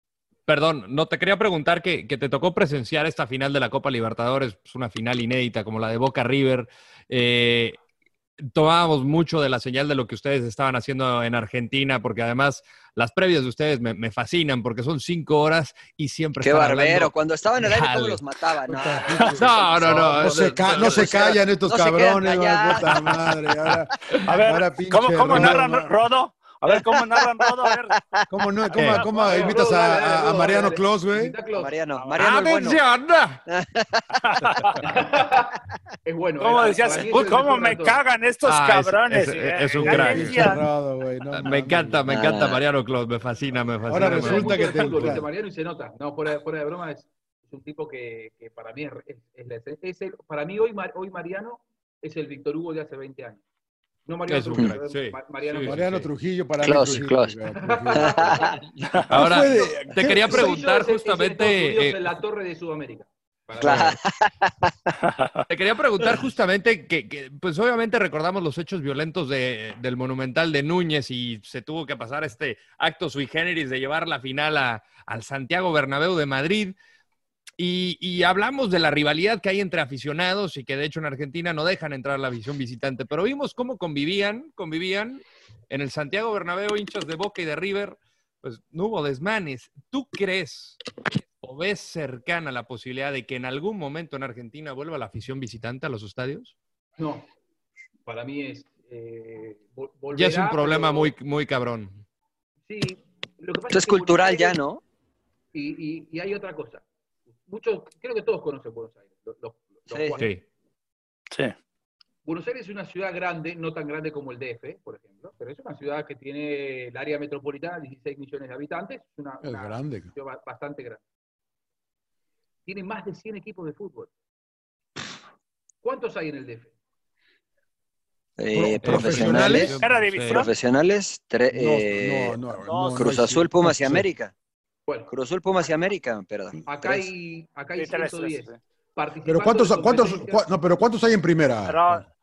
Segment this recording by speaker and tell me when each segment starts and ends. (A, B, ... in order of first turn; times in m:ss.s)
0:00.5-0:07.8 A
0:08.4-0:18.2 A
0:16.4-0:23.3 B
0:18.7-0:25.9 C
0:18.8-0:21.2 A
0:24.3-0:28.0 D
0:26.7-0:28.2 B
0:28.3-0:31.4 C
0:28.8-0:29.0 A
0:29.0-0:31.7 E
0:31.5-0:32.8 B
0:31.9-0:32.2 D
0:32.1-0:33.4 A
0:33.5-0:34.5 B
0:34.3-0:34.8 D
0:34.8-0:38.0 E
0:36.4-0:40.6 D
0:38.4-0:40.6 A
0:39.8-0:42.0 C
0:41.3-0:45.2 A
0:42.1-0:42.6 B
0:43.8-0:45.2 C
0:43.9-0:53.4 E
0:54.0-0:56.1 E
0:54.3-0:56.0 A
0:55.6-1:00.5 C
0:56.6-0:57.4 B
0:57.6-0:58.6 E
0:57.9-0:58.6 B
0:59.1-1:02.1 A
0:59.4-1:04.0 E
1:03.6-1:04.9 B
1:05.1-1:05.4 D
1:05.5-1:16.8 A
1:17.6-1:30.8 A
1:31.4-1:36.6 A
1:37.0-1:37.3 E
1:38.1-1:41.1 E
1:40.1-1:42.0 A
1:42.7-1:44.6 E
1:43.7-1:44.8 B
1:45.5-1:46.8 E
1:47.5-1:50.4 E
1:49.9-1:50.2 B
1:50.2-1:50.4 A
1:52.2-2:01.0 E
1:59.4-2:00.1 C
2:02.6-2:04.1 E
2:05.8-2:06.7 E
2:08.4-2:12.4 B
2:08.5-2:09.8 C
2:08.8-2:10.4 A
2:09.8-2:10.5 D
2:11.5-2:14.1 C
2:12.6-2:13.0 D
2:12.9-2:14.3 B
2:15.1-2:17.1 B
2:16.6-2:20.4 E
2:17.8-2:18.6 D
2:19.2-2:22.0 C
2:21.6-2:22.1 D